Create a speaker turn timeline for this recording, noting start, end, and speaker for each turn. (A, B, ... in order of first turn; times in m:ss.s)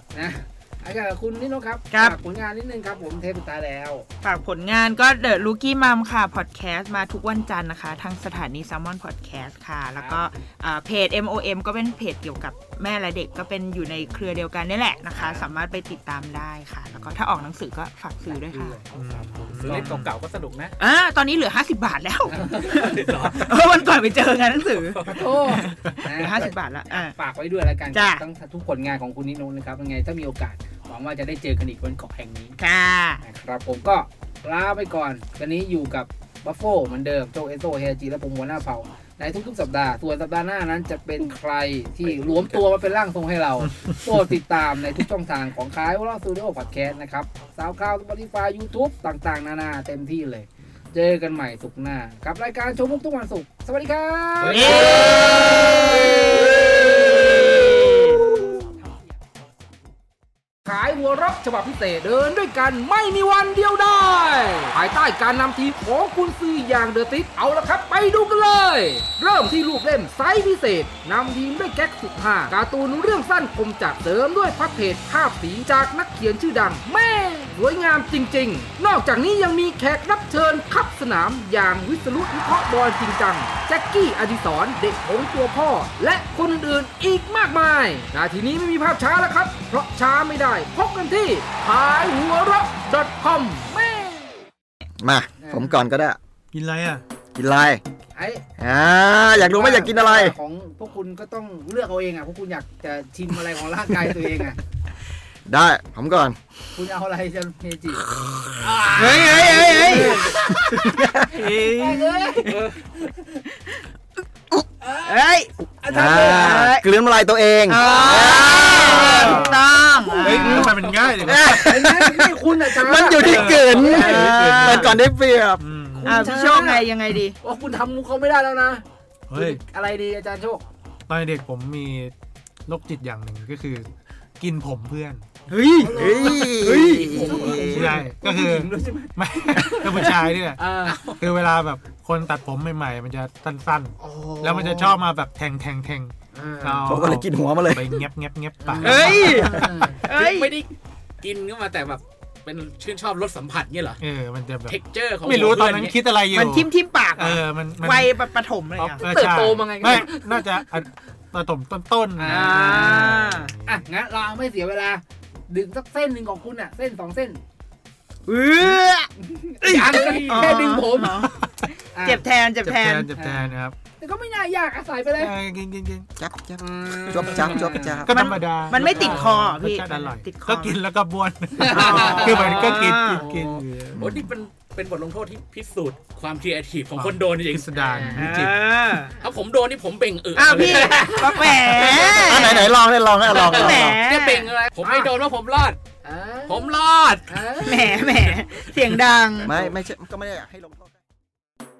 0:00.1-0:04.0 A
0:01.9-0:02.2 B
0:04.2-0:18.8 B
0:10.0-0:10.3 A
0:15.2-0:15.5 A
0:18.2-0:19.9 A
0:18.9-0:20.1 C
0:19.6-0:20.7 D
0:20.8-0:27.1 B
0:22.3-0:22.8 A
0:22.6-0:23.7 D
0:24.7-0:25.2 D
0:25.1-0:32.6 A
0:27.9-0:28.2 B
0:32.6-0:33.2 B
0:33.2-0:58.6 A
0:42.0-0:42.7 D
0:54.4-0:58.2 B
1:00.6-1:34.3 A
1:35.0-1:36.2 E
1:35.4-1:35.7 A
1:36.5-1:37.0 C
1:37.3-1:37.8 E
1:38.1-1:38.4 A
1:38.6-1:40.4 E
1:39.3-1:44.6 A
1:45.4-1:46.4 E
1:46.7-1:52.5 A
1:48.9-1:50.3 B
1:49.0-1:50.2 D
1:49.9-1:51.2 E
1:51.3-1:52.6 B
1:52.5-1:52.8 D
1:54.8-1:55.2 A
1:55.0-1:55.5 B
1:55.8-1:56.6 A
1:55.9-1:59.3 E
1:56.1-1:56.9 B
1:57.7-2:00.7 B
1:57.8-1:59.3 A
1:57.8-1:59.1 D
1:58.9-1:59.7 C
2:00.2-2:01.7 C
2:00.4-2:00.7 E
2:00.5-2:01.3 D
2:01.2-2:05.6 E
2:01.5-2:04.4 A
2:03.2-2:04.9 C
2:03.7-2:04.9 B
2:05.6-2:06.2 C
2:06.0-2:06.9 A
2:06.0-2:07.4 B
2:07.4-2:10.6 A
2:09.3-2:09.6 C
2:11.1-2:12.1 C
2:12.7-2:13.9 C
2:14.4-2:15.2 C
2:15.5-2:16.0 B
2:15.8-2:21.0 A
2:15.8-2:18.0 E
2:17.4-2:20.6 C
2:20.8-2:21.2 D
2:21.2-2:29.3 C
2:24.0-2:25.0 A
2:26.3-2:27.0 A
2:26.8-2:28.0 E
2:28.6-2:30.0 A
2:28.8-2:30.6 B
2:29.2-2:29.6 E
2:30.0-2:34.0 D
2:34.0-2:38.1 C
2:34.7-2:36.0 D
2:36.3-2:39.0 B
2:38.8-2:43.8 C
2:39.0-2:40.6 A
2:42.2-2:47.4 A
2:42.2-2:43.5 B
2:48.3-2:49.1 B
2:49.3-2:51.3 A
2:49.6-2:50.5 C
2:49.9-2:51.5 B
2:51.9-2:52.2 A
2:52.0-2:53.1 B
2:52.6-2:53.8 C
2:53.1-2:55.3 A
2:55.2-2:56.0 C
2:56.2-2:58.1 E
2:56.6-2:58.1 A
2:58.0-3:04.0 C
2:58.1-3:00.8 B
2:58.8-2:59.2 A
3:01.6-3:03.6 A
3:01.7-3:03.2 B
3:01.8-3:02.8 D
3:04.0-3:04.3 E
3:04.0-3:07.8 D
3:07.0-3:08.6 C
3:07.8-3:08.4 A
3:08.1-3:09.1 B
3:09.2-3:12.4 D
3:10.3-3:12.7 B
3:10.7-3:11.8 A
3:12.1-3:14.0 E
3:13.2-3:15.8 D
3:13.3-3:14.5 B
3:14.5-3:15.1 A
3:16.0-3:16.7 A
3:16.5-3:17.4 D
3:17.3-3:18.4 A
3:17.6-3:19.5 B
3:19.4-3:20.9 E